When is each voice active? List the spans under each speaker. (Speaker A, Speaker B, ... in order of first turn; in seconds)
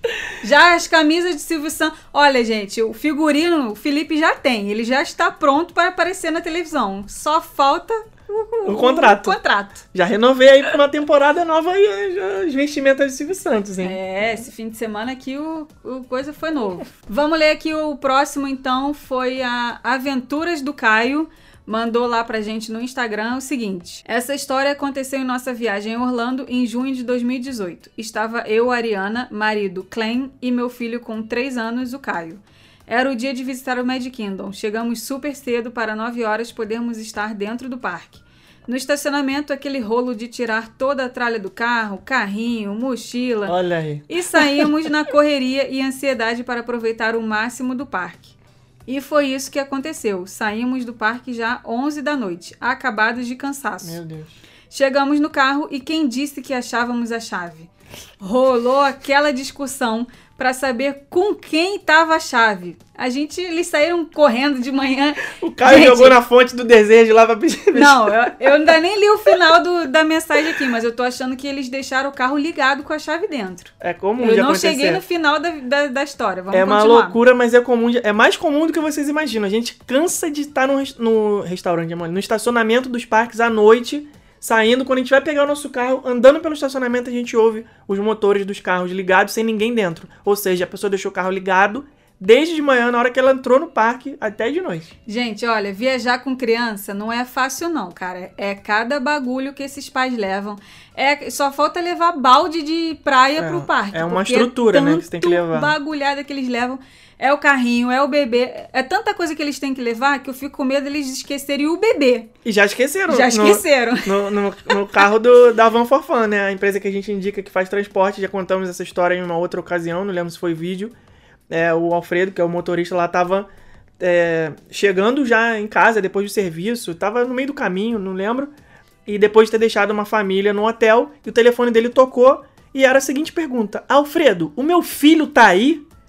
Speaker A: 0.4-9.8, 13.8-43.6, 44.1-48.4, 48.9-54.0, 54.7-66.2, 67.7-77.2, 95.1-112.3, 113.1-114.8
Speaker B: 8.7-9.4, 9.9-14.4, 43.5-44.7, 53.8-54.4, 65.3-68.3, 73.8-75.0, 76.5-94.9, 103.4-105.7, 112.4-120.9, 121.5-123.5, 124.0-128.5, 129.1-135.8